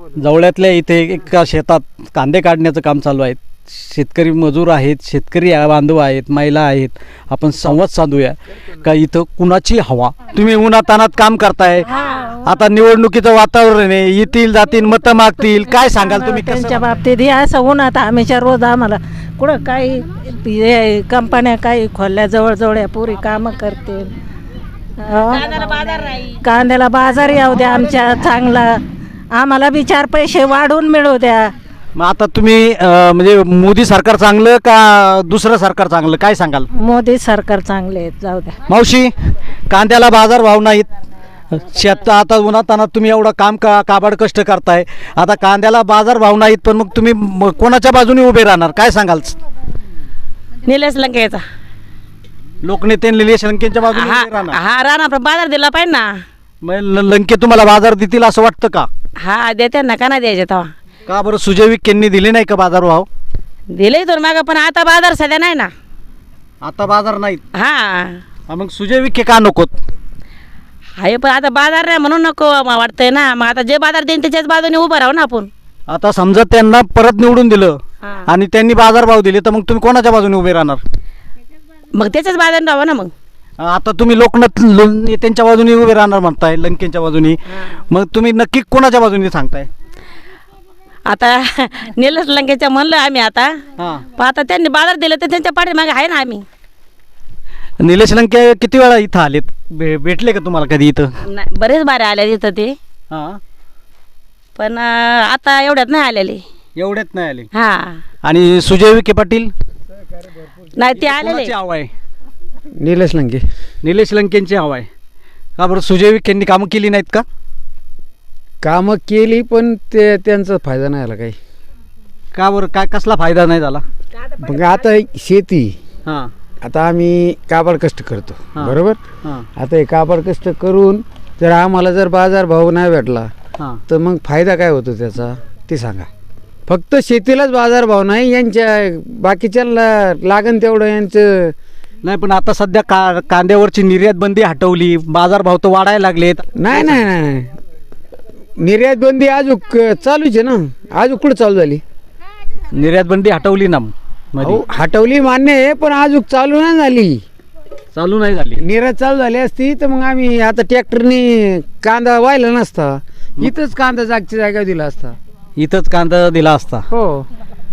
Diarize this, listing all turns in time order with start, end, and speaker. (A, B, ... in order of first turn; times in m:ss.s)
0:00.2-0:11.9 A
0:12.4-0:16.9 A
0:15.4-0:24.1 B
0:25.0-0:31.5 B
0:25.3-0:26.4 C
0:32.0-0:36.7 A
0:36.7-0:38.5 B
0:38.7-0:39.1 A
0:39.7-0:40.9 A
0:41.5-0:49.4 A
0:50.6-0:51.4 C
0:52.6-0:54.6 A
0:53.9-0:56.1 C
0:56.6-0:58.9 A
0:59.2-1:00.7 C
1:01.0-1:03.1 A
1:03.7-1:05.7 C
1:06.6-1:07.4 A
1:07.5-1:08.2 C
1:08.5-1:09.7 A
1:11.0-1:15.5 C
1:15.9-1:20.8 A
1:21.9-1:23.1 C
1:23.6-1:29.7 A
1:31.1-1:33.6 C
1:33.8-1:34.0 A
1:34.1-1:36.4 C
1:37.8-1:41.1 A
1:41.3-1:42.7 C
1:43.1-1:43.4 A
1:44.6-1:46.4 C
1:46.8-1:47.5 A
1:47.5-1:48.0 C
1:48.2-1:49.5 A
1:50.8-1:51.5 C
1:50.9-1:51.9 A
1:52.8-1:53.4 D
1:53.8-1:54.9 A
1:55.6-1:57.2 A
1:58.6-2:01.4 D
2:02.3-2:03.8 A
2:04.4-2:05.8 D
2:06.0-2:06.3 A
2:06.6-2:09.0 D
2:08.5-2:09.4 A
2:09.6-2:13.3 D
2:13.9-2:16.1 D
2:16.7-2:21.5 D
2:22.0-2:27.0 A
2:26.6-2:27.5 D
2:28.6-2:31.8 D
2:32.7-2:34.6 A
2:34.4-2:37.2 D
2:37.9-2:38.6 A
2:38.6-2:45.1 D
2:45.6-2:46.8 A
2:46.9-2:47.3 D